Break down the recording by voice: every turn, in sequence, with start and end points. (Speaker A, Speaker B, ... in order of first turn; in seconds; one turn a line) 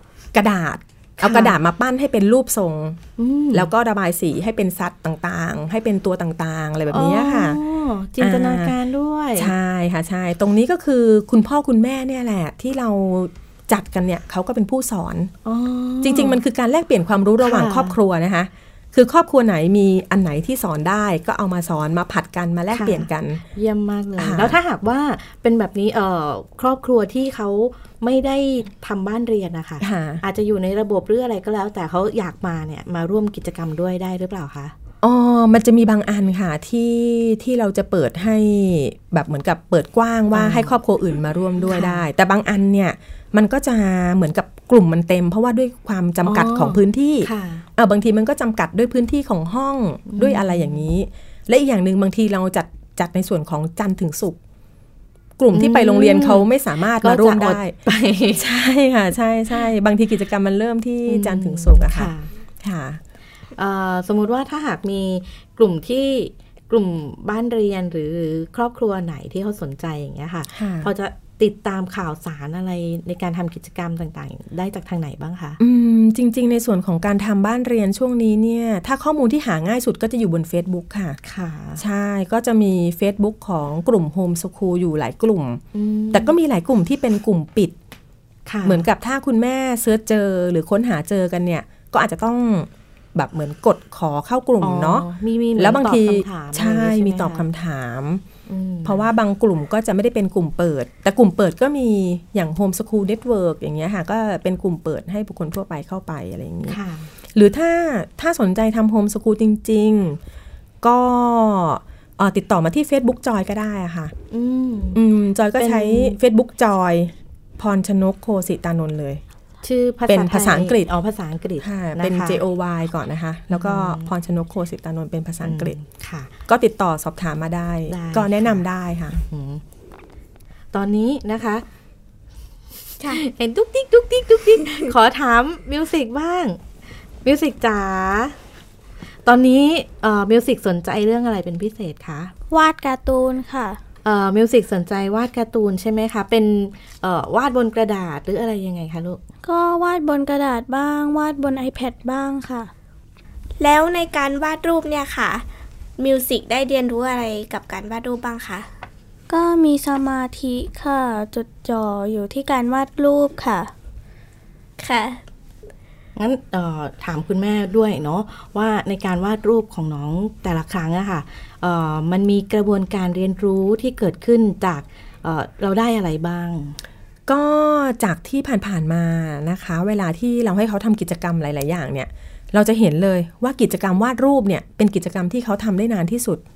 Speaker A: 0.3-3.0
Speaker B: 1.2-1.6
Speaker B: 3.2-3.7
Speaker A: 3.5-7.6
Speaker B: 6.9-9.5
Speaker A: 8.2-8.7
Speaker A: 9.4-15.3
Speaker B: 15.4-16.4
Speaker A: 16.0-23.4
Speaker B: 17.4-18.0
Speaker B: 22.7-34.7
Speaker A: 24.2-24.6
Speaker A: 29.8-30.2
Speaker A: 35.0-54.4
Speaker B: 40.3-40.8
Speaker B: 41.7-42.0
Speaker B: 46.2-47.7
Speaker B: 50.1-50.9
Speaker A: 55.4-57.8
Speaker B: 55.5-58.5
Speaker A: 58.4-63.0
Speaker B: 61.1-62.3
Speaker B: 63.6-75.6
Speaker A: 70.5-70.9
Speaker A: 75.6-81.2
Speaker B: 81.2-81.8
Speaker A: 81.8-87.8
Speaker B: 85.7-86.4
Speaker B: 88.5-88.9
Speaker A: 88.7-98.2
Speaker B: 94.6-97.5
Speaker B: 98.5-99.1
Speaker A: 98.8-106.8
Speaker B: 106.7-107.1
Speaker A: 107.3-110.2
Speaker A: 110.8-114.1
Speaker B: 114.3-115.0
Speaker A: 114.9-119.2
Speaker B: 115.6-116.2
Speaker B: 119.6-122.4
Speaker A: 120.1-120.9
Speaker A: 121.6-125.8
Speaker B: 123.5-124.1
Speaker B: 125.4-126.3
Speaker A: 126.5-129.2
Speaker B: 127.9-129.6
Speaker B: 130.7-131.7
Speaker B: 133.0-136.6
Speaker B: 137.2-138.4
Speaker B: 139.2-142.3
Speaker C: 142.5-143.8
Speaker B: 144.1-149.2
Speaker C: 149.4-152.7
Speaker D: 153.6-155.4
Speaker D: 156.0-158.7
Speaker C: 159.3-163.7
Speaker D: 164.8-165.2
Speaker B: 166.2-176.8
Speaker A: 177.3-186.4